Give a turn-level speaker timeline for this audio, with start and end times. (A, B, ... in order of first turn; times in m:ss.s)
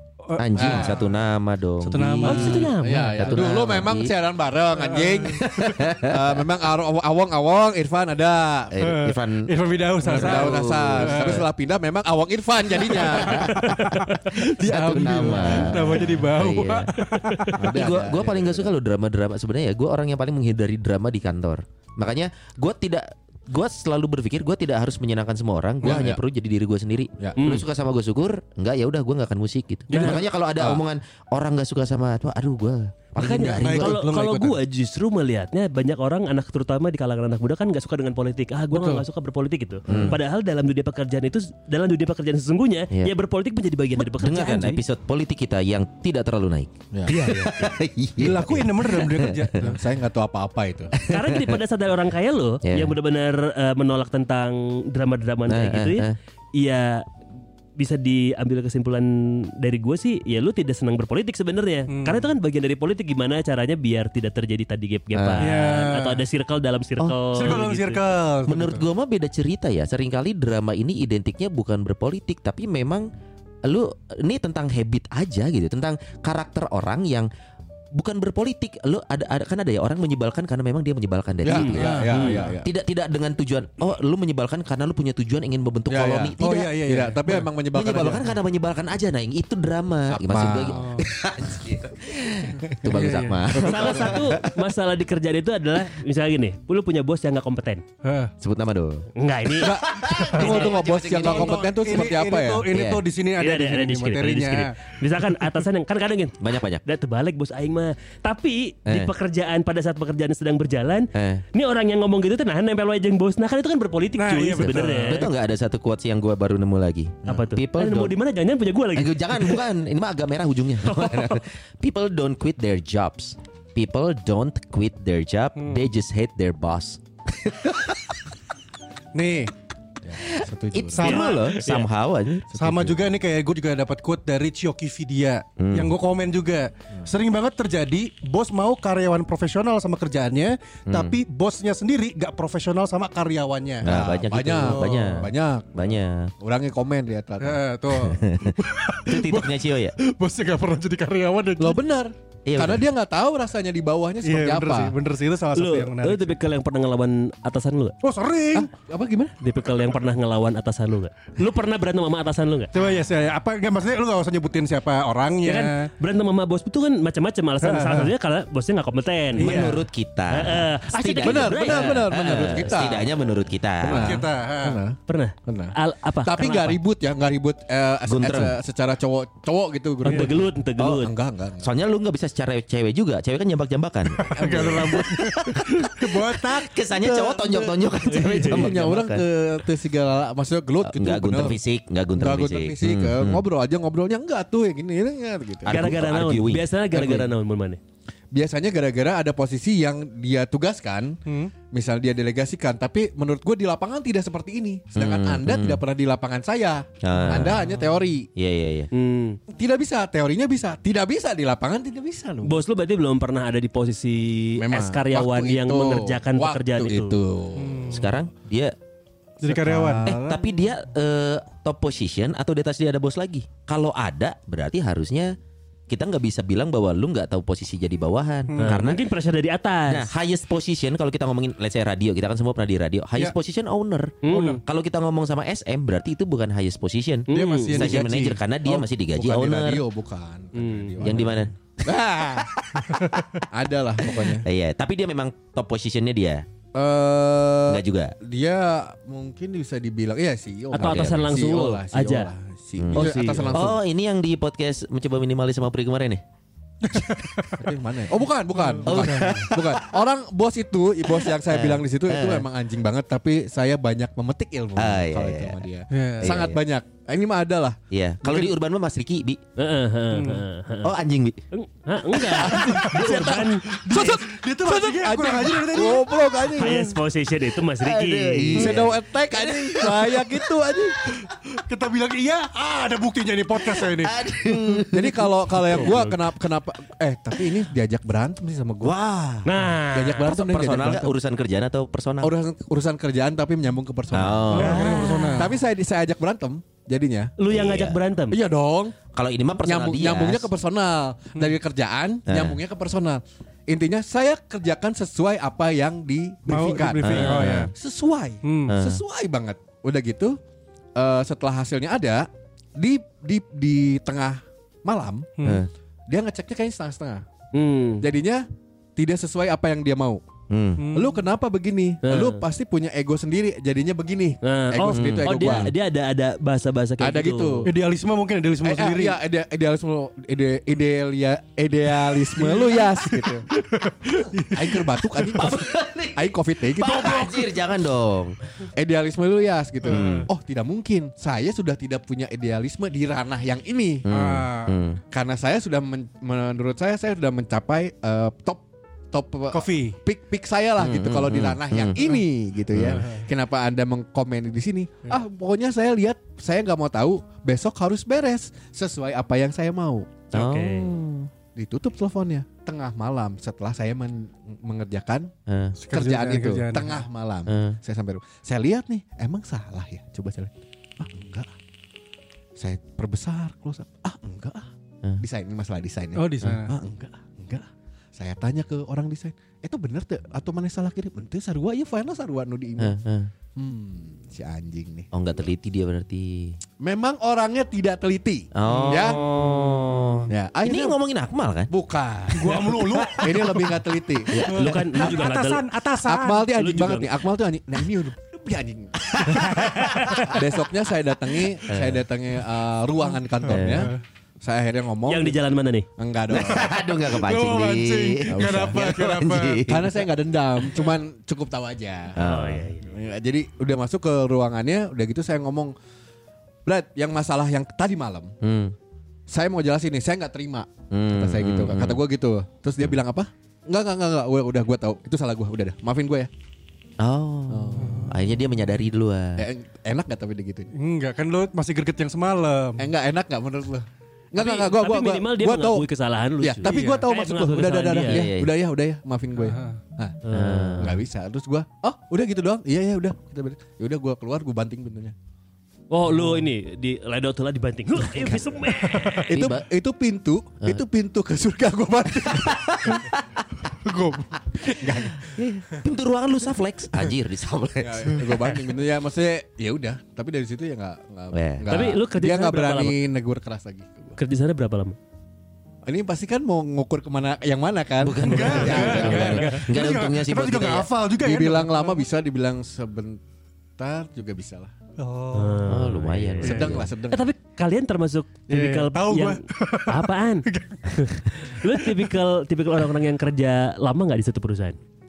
0:00.2-0:01.1 A
0:00.4-0:04.1 B
0:00.6-0:01.0 C
0:01.8-0:02.7 A
0:02.2-0:03.4 D
0:02.8-0:08.7 C
0:04.8-0:05.4 A
0:05.3-0:06.4 B
0:08.7-0:09.5 B
0:08.8-0:11.4 A
0:10.0-0:11.4 B
0:10.0-0:13.5 C
0:12.7-0:17.7 A
0:12.9-0:16.9 B
0:13.6-0:14.0 D
0:17.0-0:17.5 D
0:17.6-0:18.7 C
0:17.7-0:34.0 B
0:25.8-0:26.2 C
0:27.4-0:27.6 D
0:29.9-0:30.2 A
0:29.9-0:30.2 D
0:33.2-0:44.8 D
0:33.6-0:34.6 A
0:38.7-0:39.0 A
0:39.9-0:40.2 B
0:39.9-0:40.2 C
0:44.0-0:49.4 B
0:46.9-0:47.2 C
0:47.1-0:47.6 D
0:48.2-0:49.7 A
0:49.6-0:50.9 C
0:51.0-0:51.6 B
0:51.1-0:56.0 D
0:52.6-0:52.9 B
0:55.5-0:56.2 B
0:56.6-0:57.0 D
0:57.8-1:08.0 D
1:01.9-1:02.3 A
1:05.1-1:05.5 B
1:05.4-1:06.2 A
1:07.0-1:07.6 B
1:07.3-1:08.8 A
1:08.5-1:13.0 B
1:13.6-1:17.3 B
1:17.9-1:22.0 B
1:21.4-1:22.6 C
1:21.5-1:22.5 D
1:21.8-1:22.5 A
1:22.6-1:26.7 B
1:25.9-1:28.3 C
1:26.4-1:27.4 A
1:27.7-1:34.5 B
1:30.1-1:30.8 C
1:30.7-1:31.0 A
1:32.8-1:33.6 A
1:33.6-1:34.2 C
1:33.6-1:37.8 D
1:38.0-1:38.3 A
1:38.4-1:39.0 B
1:39.2-1:39.7 D
1:39.6-1:41.6 B
1:39.6-1:42.7 C
1:40.3-1:45.6 A
1:40.4-1:40.7 D
1:42.7-1:43.0 B
1:43.4-1:55.3 D
1:46.4-1:46.8 B
1:51.1-1:51.4 B
1:54.2-1:55.3 A
1:54.6-1:58.1 B
1:57.2-1:59.6 D
1:58.9-2:08.1 B
2:00.8-2:01.4 D
2:05.6-2:05.9 A
2:09.1-2:09.5 A
2:10.0-2:11.0 C
2:10.2-2:13.0 B
2:11.0-2:11.4 A
2:11.0-2:11.8 D
2:12.5-2:23.9 A
2:15.6-2:15.9 B
2:20.9-2:21.2 B
2:23.8-2:26.3 B
2:23.8-2:27.6 C
2:24.7-2:25.0 A
2:27.4-2:31.8 A
2:28.0-2:29.9 B
2:31.6-2:34.9 C
2:32.5-2:32.8 B
2:34.2-2:36.4 A
2:35.5-2:38.0 D
2:38.0-2:38.7 A
2:38.5-2:39.3 C
2:39.4-2:42.7 D
2:42.7-2:45.9 A
2:45.4-2:49.8 D
2:47.6-2:48.1 A
2:49.4-2:49.8 A
2:49.4-2:54.2 B
2:50.3-2:52.4 D
2:51.2-2:53.1 C
2:53.8-3:01.7 C
2:53.9-2:54.8 A
2:55.1-2:56.8 D
2:58.1-2:58.5 B
3:00.0-3:01.1 D
3:00.0-3:00.3 A
3:00.8-3:01.0 B
3:01.6-3:09.2 B
3:04.2-3:06.7 A
3:04.4-3:04.8 C
3:06.9-3:11.6 C
3:08.1-3:08.7 D
3:10.8-3:13.4 B
3:12.1-3:15.8 C
3:15.6-3:17.3 B
3:15.7-3:17.8 D
3:18.3-3:21.2 C
3:21.3-3:21.5 A
3:21.7-3:28.3 C
3:25.0-3:25.8 B
3:27.0-3:27.6 B
3:28.4-3:28.9 B
3:28.9-3:29.4 D
3:29.5-3:32.6 C
3:32.4-3:37.2 D
3:34.6-3:37.9 C
3:37.6-3:38.1 A
3:37.9-3:38.7 B
3:39.4-3:40.4 A
3:39.4-3:40.2 C
3:39.7-3:45.3 B
3:45.9-3:49.0 B
3:48.5-3:48.8 A
3:48.6-3:50.1 D
3:49.9-3:59.8 B
3:54.2-3:54.6 D
3:54.3-3:54.6 A
3:57.3-3:58.0 D
3:57.3-3:58.4 A
3:58.6-4:04.4 C
4:00.5-4:01.2 D
4:01.0-4:01.5 B
4:04.2-4:06.4 B
4:06.7-4:13.8 C
4:07.7-4:08.1 B
4:10.7-4:12.3 D
4:10.8-4:11.4 B
4:12.8-4:16.2 B
4:12.9-4:13.6 D
4:16.8-4:17.7 A
4:17.6-4:28.5 C
4:18.6-4:19.5 A
4:18.8-4:19.9 B
4:21.2-4:22.4 B
4:24.8-4:25.6 B
4:25.9-4:26.4 A
4:26.2-4:26.6 B
4:27.9-4:29.4 B
4:29.6-4:30.9 D
4:30.1-4:30.4 A
4:30.8-4:31.4 B
4:31.5-4:33.6 D
4:32.2-4:36.9 A
4:32.5-4:36.8 C
4:36.6-4:38.8 D
4:37.7-4:40.3 B
4:38.5-4:41.2 C
4:41.2-4:44.1 A
4:43.6-4:46.1 B
4:44.9-4:48.9 C
4:48.8-4:49.5 B
4:49.4-4:50.3 D
4:49.7-4:51.1 C
4:50.2-4:52.3 B
4:52.2-4:57.3 C
4:54.1-4:55.5 B
4:54.5-4:55.5 A
4:54.7-4:55.1 D
4:57.4-4:58.4 D
4:57.5-4:58.0 B
4:58.3-4:58.9 C
4:59.1-5:00.5 B
4:59.6-5:10.4 C
5:02.3-5:02.6 B
5:06.5-5:07.7 A
5:07.0-5:07.5 B
5:07.2-5:07.6 D
5:08.4-5:08.7 A
5:08.7-5:09.0 B
5:11.0-5:15.3 C
5:16.1-5:17.2 C
5:17.5-5:18.0 D
5:18.0-5:18.4 C
5:19.0-5:20.2 C
5:20.5-5:20.8 B
5:20.8-5:21.2 A
5:20.9-5:25.7 C
5:22.0-5:22.4 D
5:24.4-5:27.6 D
5:24.9-5:25.3 B
5:27.0-5:27.7 C
5:27.6-5:29.2 A
5:28.6-5:33.4 C
5:32.3-5:35.4 A
5:34.5-5:37.4 C
5:35.3-5:38.3 B
5:38.8-5:44.0 C
5:39.9-5:40.2 A
5:39.9-5:40.3 B
5:44.0-5:45.0 B
5:44.1-5:44.7 A
5:45.1-6:00.2 C
5:49.5-5:50.0 A
5:50.8-5:52.0 B
5:52.7-5:53.0 B
5:52.9-5:53.3 A
6:00.3-6:00.9 D
6:00.3-6:01.3 B
6:01.6-6:05.3 C
6:05.5-6:05.8 B
6:05.8-6:07.0 A
6:05.9-6:11.5 C
6:07.5-6:07.8 B
6:12.6-6:23.0 C
6:16.1-6:16.7 A
6:22.8-6:23.3 B
6:23.6-6:25.1 C
6:25.1-6:26.6 B
6:26.8-6:29.2 C
6:28.5-6:31.7 B
6:28.7-6:29.1 D
6:30.3-6:31.0 C
6:31.7-6:34.5 C
6:32.3-6:33.4 A
6:32.6-6:33.6 B
6:34.3-6:34.8 B
6:34.5-6:36.6 A
6:34.5-6:35.6 D
6:36.0-6:39.6 C
6:36.6-6:37.1 D
6:39.1-6:40.4 B
6:39.9-6:40.3 D
6:40.3-6:45.4 C
6:41.7-6:42.0 B
6:43.5-6:43.9 B
6:43.6-6:44.0 A
6:45.0-6:45.8 D
6:46.0-6:46.7 C
6:46.3-6:49.9 B
6:46.9-6:49.6 A
6:48.3-6:48.8 C
6:49.6-6:52.2 C
6:52.2-6:52.7 B
6:52.2-6:52.9 D
6:52.8-6:55.7 C
6:56.6-6:58.3 C
6:58.4-6:58.7 B
6:59.3-7:06.3 C
7:00.9-7:02.0 B
7:07.0-7:09.4 B
7:07.5-7:08.0 C
7:07.8-7:08.2 A
7:09.4-7:10.7 C
7:10.8-7:12.9 A
7:12.8-7:15.8 C
7:14.3-7:18.2 D
7:16.4-7:20.2 C
7:16.7-7:17.0 A
7:18.0-7:18.5 B
7:19.4-7:19.8 A
7:20.2-7:20.8 D
7:20.3-7:21.0 B
7:20.8-7:25.1 C
7:25.9-7:29.4 D
7:29.3-7:33.0 C
7:29.3-7:29.6 B
7:32.3-7:33.4 B
7:33.8-7:34.2 A
7:34.5-7:35.4 C
7:35.2-7:38.6 B
7:37.8-7:44.2 C
7:41.3-7:41.7 B
7:41.7-7:43.0 D
7:44.2-7:45.0 D
7:45.8-7:49.6 C
7:48.0-7:50.9 B
7:48.2-7:52.0 A
7:51.2-7:53.2 C
7:53.8-7:54.7 C
7:55.0-7:55.8 A
7:55.3-8:04.8 D
7:55.6-7:56.9 B
7:56.4-7:57.3 C
7:56.4-7:56.8 A
7:58.5-8:02.0 A